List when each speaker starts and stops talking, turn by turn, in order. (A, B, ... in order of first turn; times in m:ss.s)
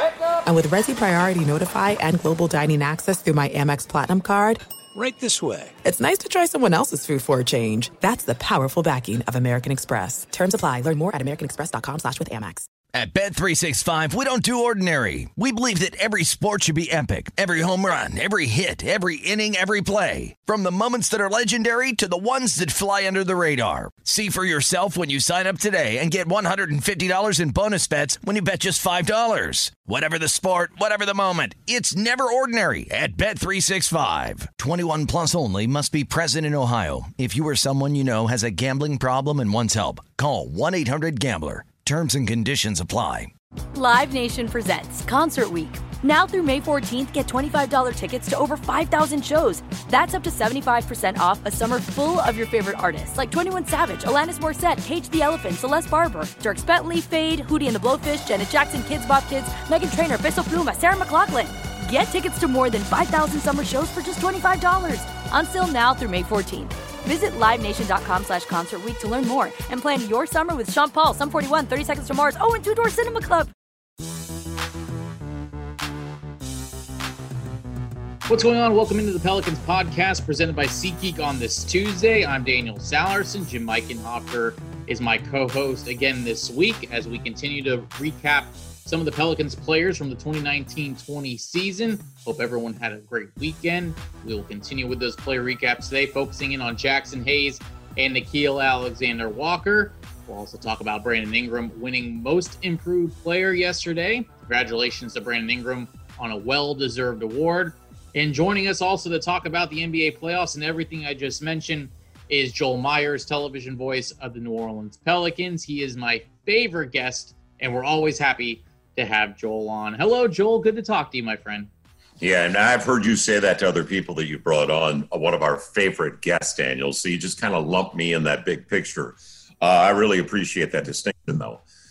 0:00.4-0:04.6 A
0:04.9-0:05.7 B
0:05.8-0:12.7 A
0:12.9-0:43.3 B
0:43.7-1:13.5 C
1:18.3-2:01.7 D
2:02.2-2:11.6 E